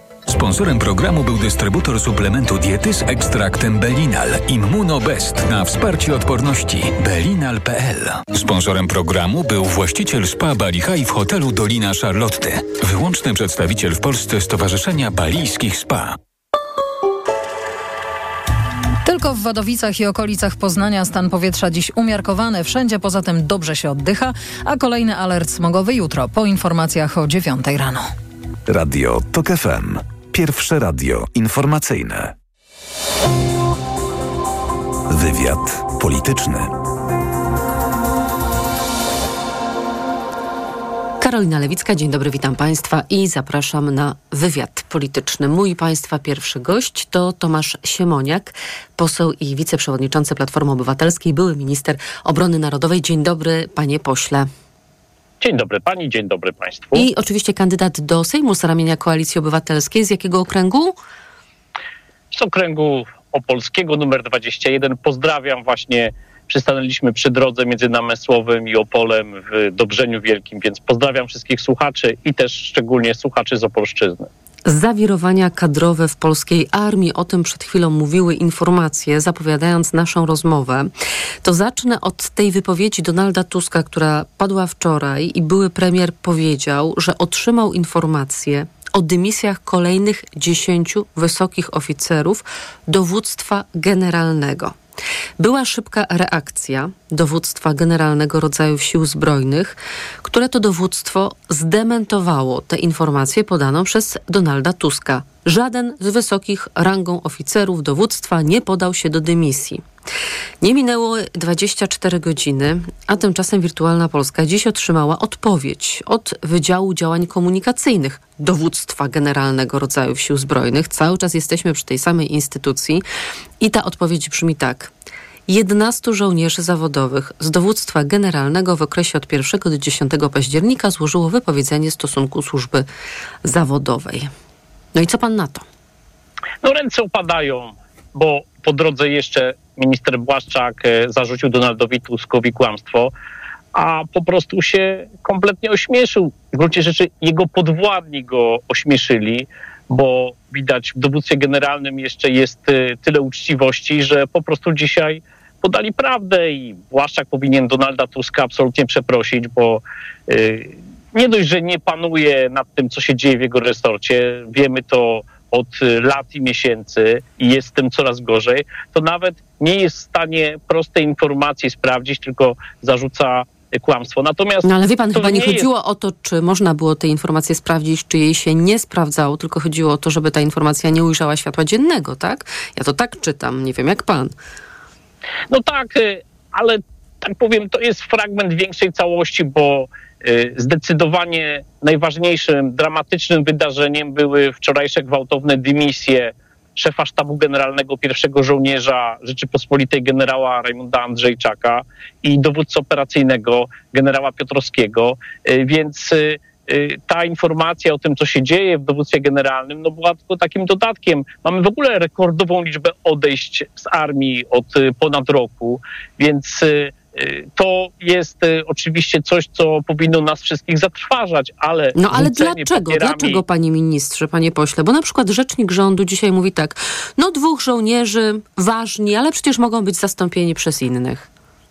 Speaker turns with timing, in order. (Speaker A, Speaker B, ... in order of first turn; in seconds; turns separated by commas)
Speaker A: 0.3-16.2, Speaker B: 19.0-28.1, Speaker C: 28.7-32.3, Speaker C: 35.1-36.7, Speaker D: 41.2-54.5, Speaker E: 55.4-57.0, Speaker D: 56.9-61.0, Speaker E: 62.3-74.3, Speaker D: 74.7-80.9, Speaker D: 81.4-94.8, Speaker D: 95.4-109.8, Speaker D: 110.6-123.0, Speaker D: 123.6-124.9, Speaker D: 125.5-132.9, Speaker D: 133.4-134.3, Speaker D: 134.9-135.6, Speaker E: 136.6-143.1, Speaker E: 143.7-175.7, Speaker D: 174.6-184.3, Speaker E: 185.5-223.4, Speaker D: 221.9-231.3